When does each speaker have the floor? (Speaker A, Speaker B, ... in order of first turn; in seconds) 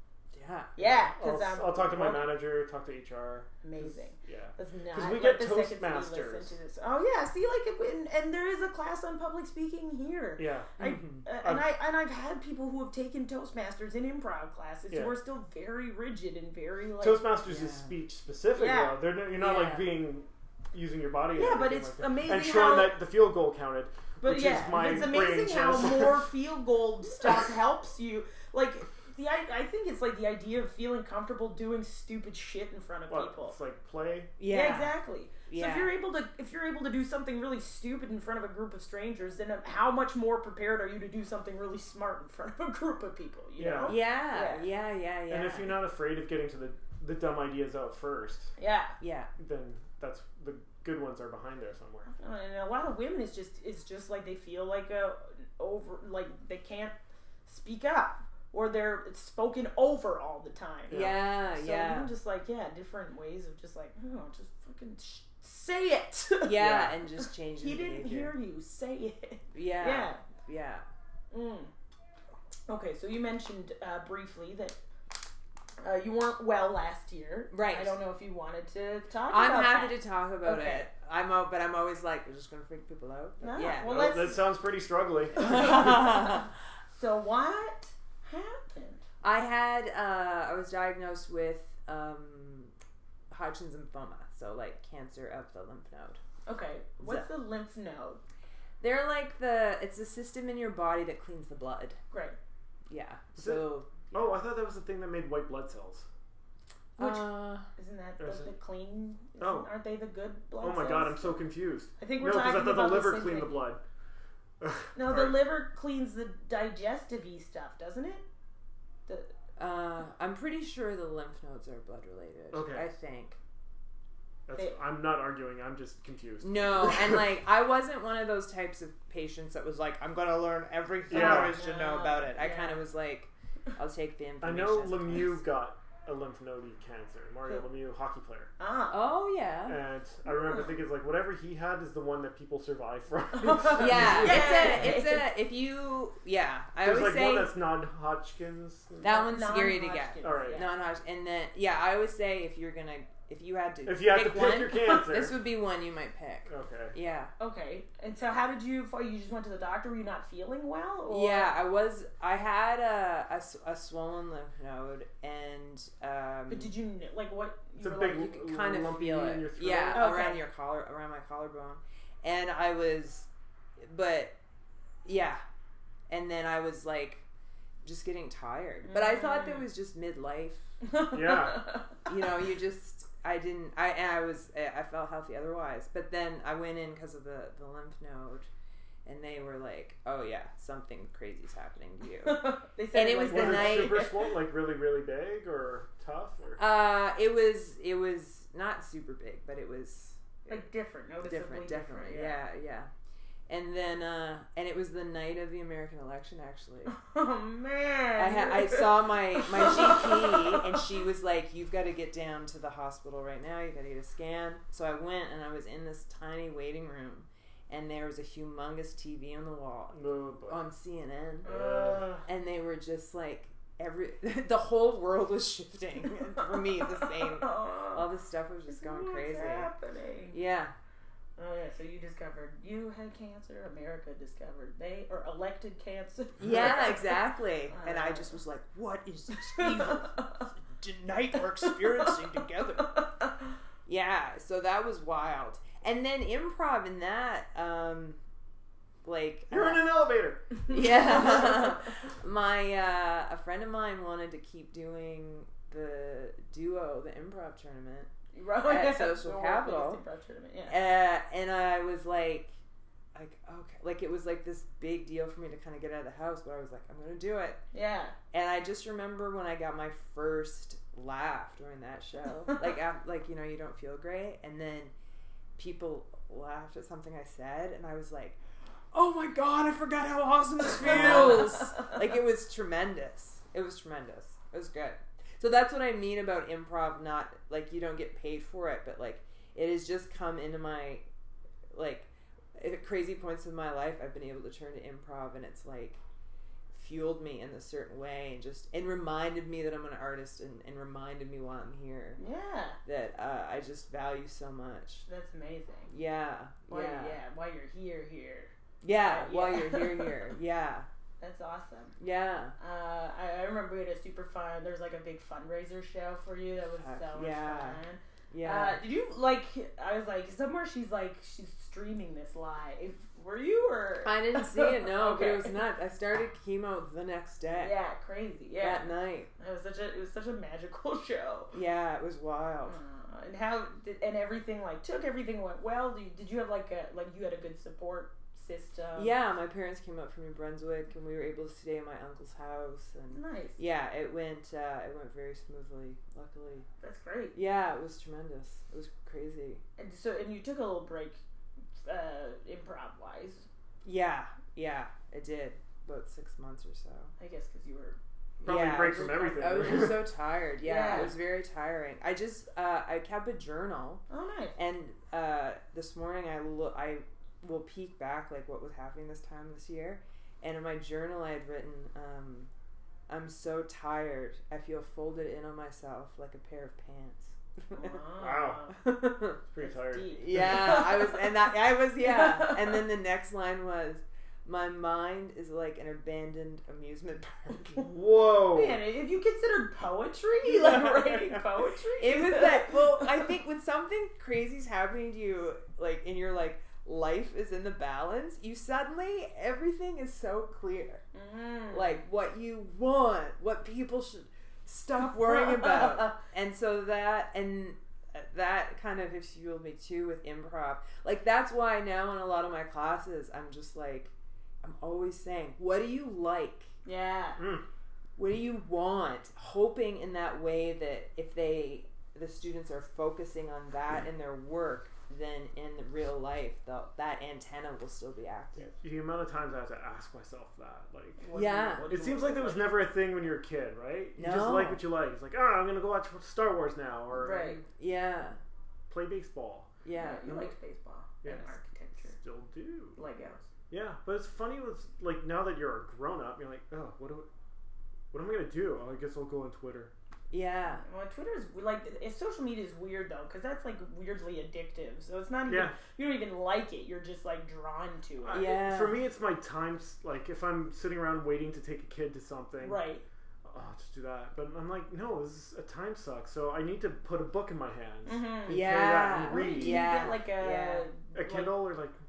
Speaker A: 0.3-0.7, 10.8-11.2, 17.4-17.9, 19.3-19.9, 34.4-35.9, 43.8-45.8, 49.0-49.3, 60.9-62.1, 66.4-68.3, 69.5-70.8, 77.5-78.0, 79.3-84.2, 85.4-86.5, 89.2-92.7, 93.3-96.2, 97.0-97.3, 98.8-102.0, 102.9-104.4, 107.0-107.7, 119.6-123.4, 126.4-135.4, 138.9-139.8, 143.8-147.5, 149.0-157.3, 161.1-166.7, 168.1-174.3, 175.0-175.4, 176.1-177.2, 177.8-180.8, 182.1-188.5, 189.0-194.1, 196.6-200.6, 201.2-202.9, 203.5-206.9, 208.2-219.9, 220.5-221.5, 222.2-229.7, 230.3-230.7, 236.4-243.0, 243.8-248.2, 249.0-249.9, 250.7-260.0, 260.7-262.5, 263.1-267.6, 268.3-274.9, 275.6-278.4, 278.9-291.0, 291.7-296.0, 296.7-302.2, 302.8-305.1, 305.9-307.2, 308.8-310.9, 312.0-312.5, 316.7-317.8, 318.3-318.8, 324.0-327.7, 328.6-329.3, 331.5-332.8, 338.9-346.7, 347.3-349.6, 353.8-357.1, 358.4-364.0, 364.6-372.5, 373.1-378.0, 378.8-379.4, 380.1-387.8, 392.0-401.0, 401.7-416.7, 418.2-428.7, 431.3-431.9, 434.1-434.8, 437.4-438.4, 439.8-440.3, 450.3-450.8, 458.3-459.0, 468.5-470.9
Speaker B: 0.8-2.4, 3.6-17.3, 18.6-19.0, 21.3-23.0, 24.2-33.5, 34.5-44.7, 48.6-49.0, 52.0-66.6, 67.2-70.2, 71.3-71.7, 72.7-74.8, 75.8-80.9, 83.4-84.5, 85.3-89.0, 96.5-98.2, 102.1-102.3, 107.0-111.4, 112.0-113.6, 114.9-118.2, 131.1-132.8, 138.6-139.0, 143.3-145.3, 149.0-150.7, 157.4-161.5, 166.5-168.3, 169.9-170.4, 178.8-179.6, 180.8-182.0, 192.2-194.3, 200.5-202.4, 206.9-210.7, 221.4-222.2, 226.4-228.1, 228.7-230.4, 231.4-238.4, 239.5-240.3, 241.6-243.3, 250.9-251.6, 258.3-260.8, 267.7-268.1, 280.8-281.9, 302.2-302.8, 305.1-305.9, 306.7-310.2, 311.2-311.9, 312.6-325.6, 327.6-331.5, 332.6-339.1, 343.1-343.6, 346.8-347.4, 349.8-351.2, 351.8-353.4, 357.2-359.7, 360.6-361.2, 364.1-364.6, 377.7-378.8, 379.6-381.3, 382.0-382.8, 388.4-393.3, 401.1-402.0, 405.2-406.2, 416.8-417.5, 431.2-432.7, 437.1-437.6, 439.9-442.1, 442.9-443.4, 450.8-458.4, 462.6-463.0, 468.1-471.7
Speaker C: 0.8-6.6, 10.4-10.7, 14.9-15.2, 17.0-26.3, 33.1-34.3, 43.6-44.0, 45.3-48.5, 49.4-52.1, 60.9-61.2, 66.5-67.0, 83.8-85.7, 103.3-106.0, 108.2-108.5, 109.4-109.7, 110.6-113.8, 114.6-115.4, 122.5-122.8, 124.5-127.2, 131.1-131.6, 134.4-138.5, 139.7-145.0, 146.8-149.1, 150.2-150.7, 153.8-155.4, 156.5-156.9, 167.8-170.1, 181.1-181.7, 193.3-196.6, 219.9-220.6, 221.4-222.1, 249.5-251.5, 358.4-360.1, 378.2-378.7, 379.5-380.8, 387.8-388.8, 390.4-391.3, 417.4-417.6, 428.6-431.2, 431.9-437.6, 438.9-440.5, 441.2-441.6, 442.1-443.0, 443.7-447.3, 448.1-449.9, 455.5-455.7, 458.2-462.9, 463.4-469.9, 471.1-472.0